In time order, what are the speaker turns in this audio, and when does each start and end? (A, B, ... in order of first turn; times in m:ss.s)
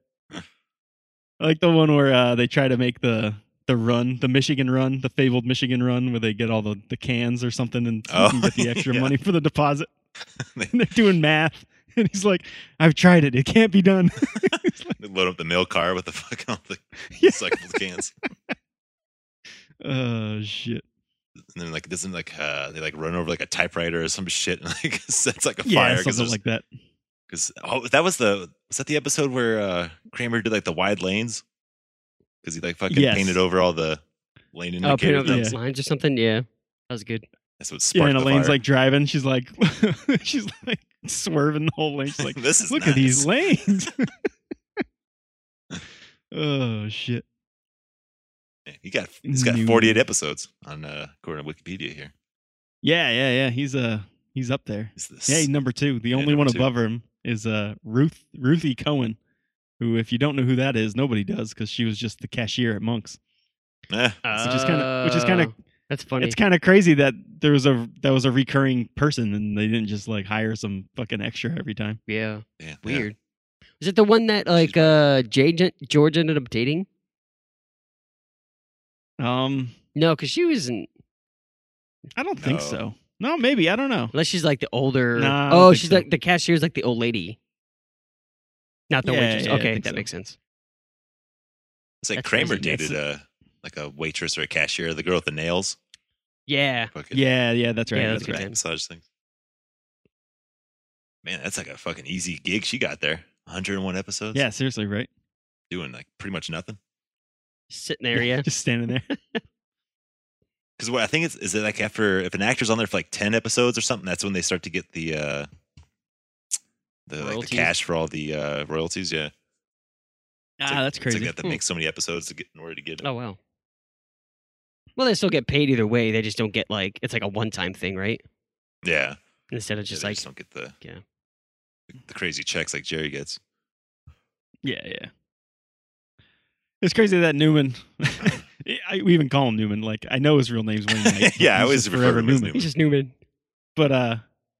0:01.4-0:09.9 A
0:08.1-0:09.1 B
0:10.4-0:10.7 B
0:10.7-0:15.0 A
0:14.5-0:18.1 B
0:17.1-0:17.7 A
0:19.8-0:20.8 A
0:21.5-0:26.4 B
0:25.6-0:26.6 A
0:27.3-0:31.4 B
0:32.4-0:34.0 B
0:32.9-0:33.4 A
0:34.5-0:35.5 B
0:34.8-0:37.2 C
0:35.2-0:35.6 A
0:37.6-0:38.6 B
0:37.9-0:44.1 A
0:42.2-0:43.3 B
0:46.3-0:47.2 A
0:48.7-0:52.1 B
0:49.2-0:50.0 A
0:52.8-0:59.2 A
0:55.0-0:55.5 B
0:56.1-0:56.7 B
0:59.8-1:03.2 A
1:03.9-1:04.6 B
1:04.2-1:06.4 C
1:04.4-1:05.5 A
1:06.2-1:12.0 A
1:12.1-1:13.2 C
1:12.6-1:13.1 B
1:13.8-1:16.8 C
1:14.6-1:15.0 B
1:19.2-1:19.7 A
1:19.9-1:20.9 C
1:22.2-1:24.1 A
1:22.4-1:22.8 B
1:24.1-1:27.4 C
1:25.2-1:26.1 A
1:28.9-1:30.4 C
1:29.0-1:30.0 A
1:32.0-1:35.8 B
1:32.2-1:32.9 C
1:36.5-1:36.9 C
1:36.9-1:37.2 B
1:37.1-1:38.4 A
1:37.9-1:38.6 C
1:38.0-1:39.0 B
1:41.2-1:44.4 B
1:44.3-1:45.1 A
1:45.7-1:46.8 B
1:47.7-1:48.4 C
1:48.1-1:49.1 A
1:49.1-1:49.4 C
1:50.8-1:55.5 B
1:57.1-1:59.3 B
1:57.2-1:57.7 C
2:00.6-2:01.4 A
2:00.7-2:03.0 B
2:03.0-2:03.4 C
2:05.0-2:08.2 C
2:08.8-2:09.2 B
2:09.5-2:10.2 C
2:09.9-2:10.7 B
2:11.9-2:13.4 B
2:14.6-2:15.1 A
2:16.8-2:22.6 A
2:20.9-2:22.7 B
2:22.5-2:23.1 C
2:23.8-2:24.2 A